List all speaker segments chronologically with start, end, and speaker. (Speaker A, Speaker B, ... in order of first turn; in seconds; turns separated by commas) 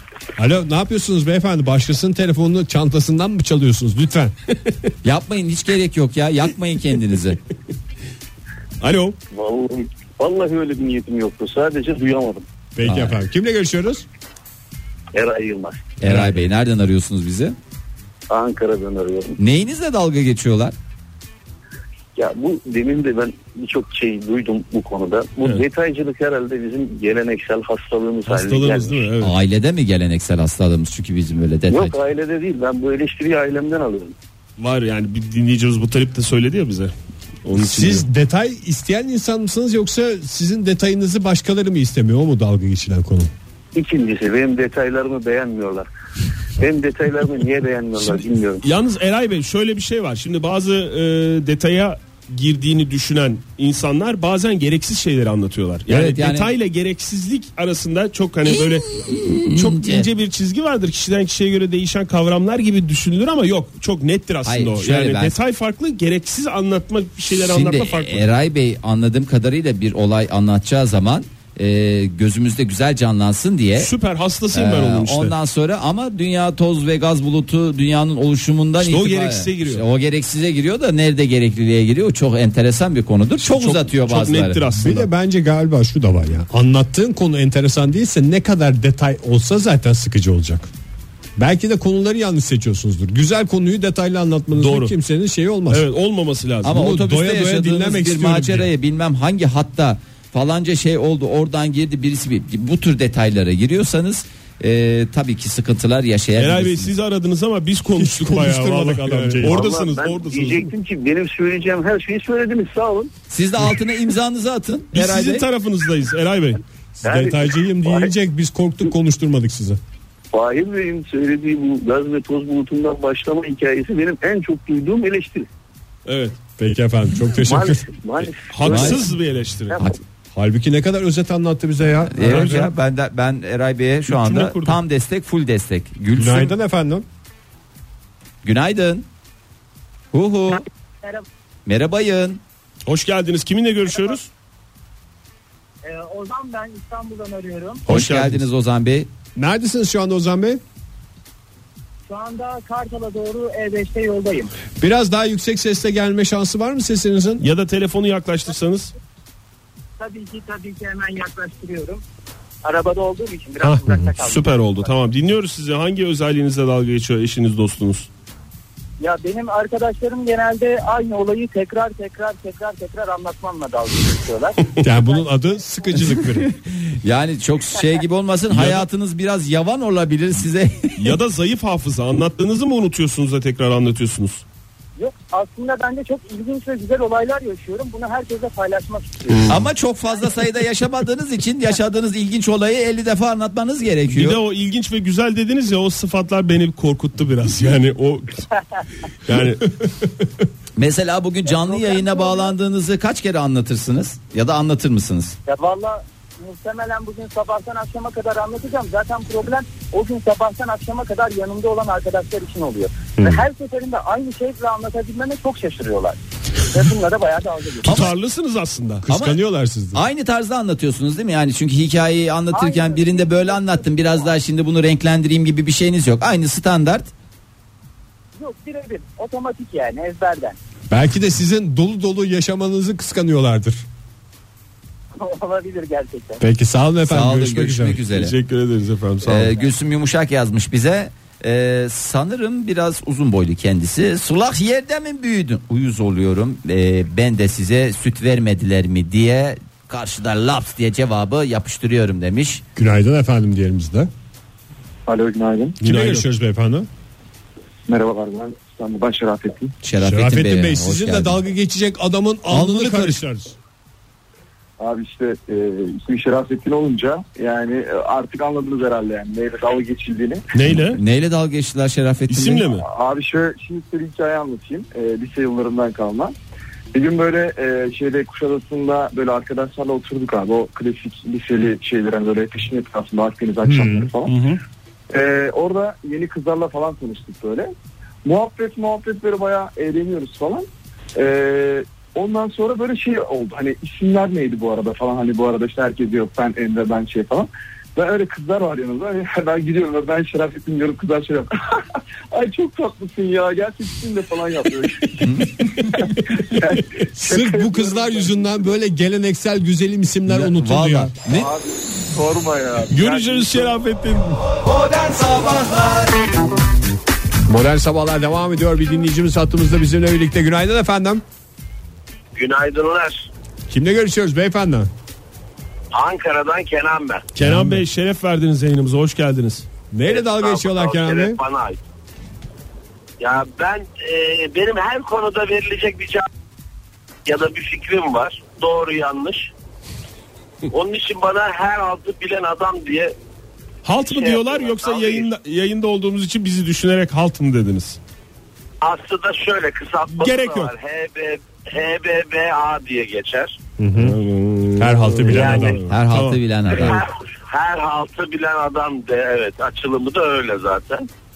Speaker A: 0.4-4.3, Speaker B: 5.0-7.4, Speaker C: 8.8-9.2, Speaker D: 9.3-12.5, Speaker A: 12.8-14.0, Speaker B: 12.8-13.2, Speaker D: 15.1-15.9, Speaker B: 16.0-17.6, Speaker D: 18.3-19.4, Speaker B: 19.4-20.7, Speaker D: 22.1-29.1, Speaker C: 28.3-29.3, Speaker B: 29.2-31.9, Speaker D: 31.7-34.1, Speaker C: 34.6-36.9, Speaker C: 37.4-38.0, Speaker A: 37.5-43.3, Speaker D: 43.7-45.9, Speaker D: 46.6-48.6, Speaker C: 48.0-68.3, Speaker B: 55.9-56.5, Speaker B: 58.9-60.1, Speaker B: 64.4-65.3, Speaker B: 67.4-73.9, Speaker C: 73.8-75.3, Speaker B: 74.5-84.6, Speaker C: 78.8-79.8, Speaker C: 83.4-85.1, Speaker A: 84.7-90.7, Speaker A: 91.4-95.9, Speaker C: 94.5-94.9, Speaker C: 95.7-96.8, Speaker B: 96.6-106.9, Speaker A: 96.7-98.7, Speaker C: 106.4-110.7, Speaker A: 108.0-109.6, Speaker D: 109.4-113.1, Speaker B: 113.3-115.4, Speaker C: 114.9-116.6, Speaker A: 117.0-119.8, Speaker D: 117.0-118.1, Speaker D: 120.3-125.5, Speaker C: 126.0-126.4, Speaker A: 126.6-127.9, Speaker D: 127.4-129.0, Speaker C: 128.5-129.8, Speaker B: 128.6-129.0, Speaker A: 130.3-132.2, Speaker B: 132.1-136.5, Speaker C: 132.2-132.7, Speaker C: 134.1-134.8, Speaker A: 136.2-137.1, Speaker B: 138.4-139.1, Speaker B: 140.1-140.6, Speaker B: 141.7-142.4, Speaker C: 142.8-144.3, Speaker E: 145.8-147.8, Speaker C: 147.9-148.4, Speaker B: 147.9-149.1, Speaker A: 149.3-150.6, Speaker E: 152.1-154.5, Speaker A: 154.8-157.4, Speaker C: 157.4-158.9, Speaker E: 160.0-162.0, Speaker E: 162.6-164.9, Speaker C: 163.7-168.1, Speaker E: 169.0-176.2, Speaker A: 174.8-176.5, Speaker B: 176.8-181.0, Speaker C: 178.5-178.8, Speaker C: 181.0-184.4, Speaker E: 185.0-189.5, Speaker B: 189.4-194.4, Speaker C: 194.1-198.4, Speaker C: 199.2-199.8, Speaker B: 200.8-205.3, Speaker E: 201.5-202.5, Speaker E: 205.4-218.1, Speaker C: 217.8-219.0, Speaker A: 219.0-220.0, Speaker B: 219.1-219.4, Speaker B: 219.9-227.1, Speaker E: 222.5-224.3, Speaker E: 228.4-230.6, Speaker A: 230.9-233.8, Speaker E: 235.1-236.4, Speaker A: 236.4-238.0, Speaker B: 237.1-238.3, Speaker C: 238.0-239.5, Speaker B: 239.2-252.6, Speaker A: 252.8-254.1, Speaker F: 255.1-255.8, Speaker A: 255.8-256.9, Speaker C: 255.8-256.3, Speaker F: 257.9-259.7, Speaker B: 259.8-261.4, Speaker A: 260.0-263.6, Speaker B: 262.5-263.2, Speaker F: 264.8-270.4, Speaker C: 270.5-271.0, Speaker B: 270.7-272.6, Speaker C: 272.3-272.8, Speaker F: 272.7-276.3, Speaker F: 276.9-284.3, Speaker A: 283.6-284.1, Speaker C: 284.3-284.6, Speaker F: 285.1-287.7, Speaker F: 288.2-305.1, Speaker B: 305.2-306.1, Speaker F: 305.8-308.6, Speaker A: 307.1-311.1, Speaker B: 310.3-311.5, Speaker F: 311.3-313.8, Speaker C: 312.9-314.4, Speaker B: 314.6-316.1, Speaker A: 317.5-321.2, Speaker G: 322.3-323.3, Speaker A: 323.7-324.9, Speaker G: 325.9-327.2, Speaker C: 327.3-329.6, Speaker A: 327.4-327.8, Speaker A: 329.9-331.4, Speaker G: 330.1-331.8, Speaker G: 333.2-336.2, Speaker G: 337.2-339.5, Speaker G: 340.7-343.1, Speaker C: 343.8-348.0, Speaker G: 344.0-345.3, Speaker G: 348.8-353.6, Speaker C: 350.1-350.7, Speaker A: 353.8-354.2, Speaker C: 354.0-356.9, Speaker A: 354.8-355.8, Speaker G: 355.3-355.7, Speaker B: 355.8-357.0, Speaker G: 356.7-361.1